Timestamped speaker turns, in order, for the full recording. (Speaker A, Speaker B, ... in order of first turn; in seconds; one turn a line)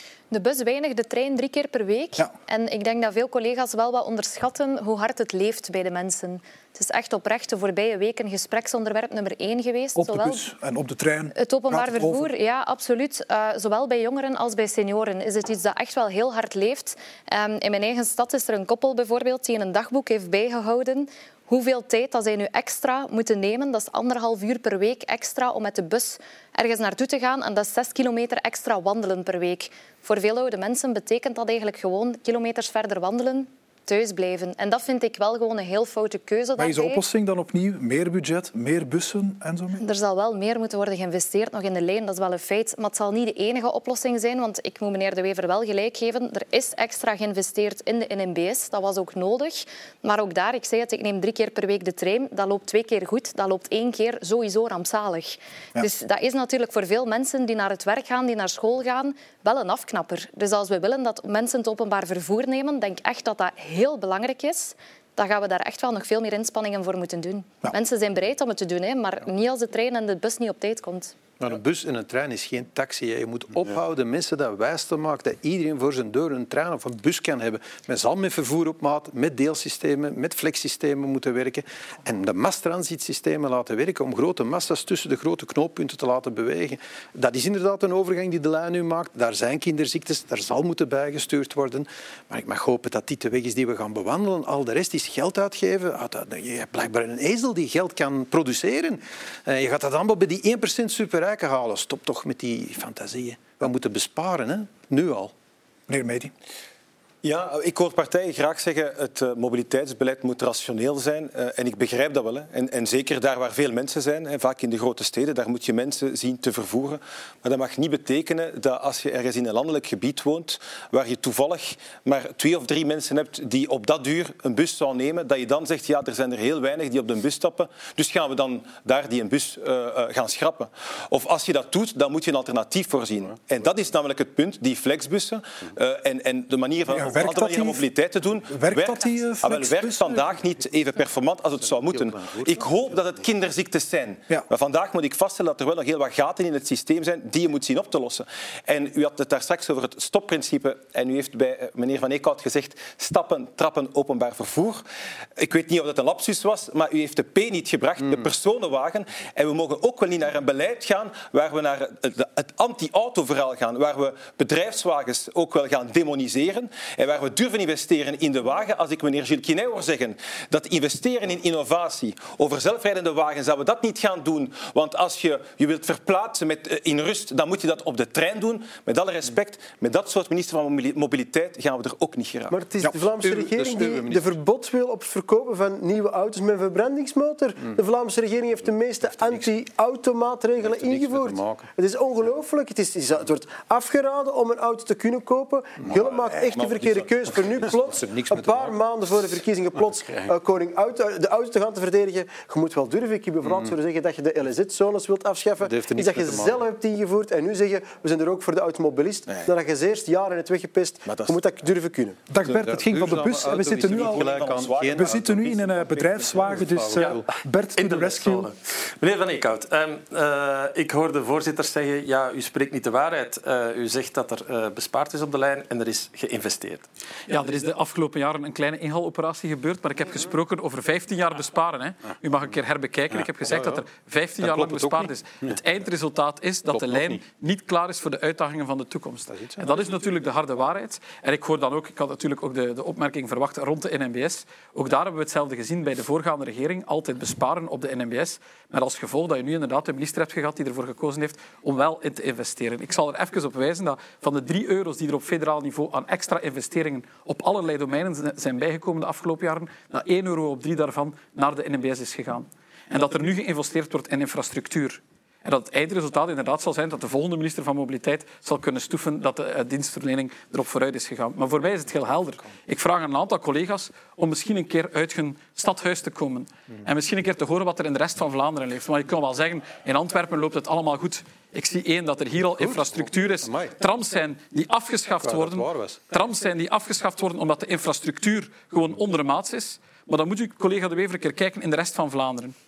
Speaker A: 0.3-10.4
Speaker B: 9.9-12.3
Speaker A: 11.3-37.0
Speaker B: 36.6-39.8
Speaker A: 39.8-71.1
Speaker C: 71.4-105.3
Speaker B: 105.9-106.3
Speaker D: 107.2-154.8
Speaker B: 136.9-137.9
Speaker B: 138.4-140.4
Speaker C: 141.8-142.6
Speaker D: 155.4-182.6
Speaker E: 182.5-212.2
Speaker B: 182.8-183.0
Speaker C: 183.0-184.4
Speaker C: 189.0-189.5
Speaker C: 190.6-191.6
Speaker C: 195.8-198.8
Speaker D: 196.2-197.7
Speaker C: 203.4-203.7
Speaker C: 205.6-206.7
Speaker D: 209.3-209.5
Speaker D: 211.0-211.4
Speaker B: 212.3-214.2
Speaker D: 212.4-213.0
Speaker C: 212.6-217.2
Speaker D: 213.7-215.7
Speaker B: 214.9-218.5
Speaker F: 217.8-226.8
Speaker G: 227.2-292.5
Speaker C: 233.5-233.8
Speaker C: 234.4-235.1
Speaker C: 239.3-239.8
Speaker C: 282.6-283.7
Speaker C: 285.2-286.0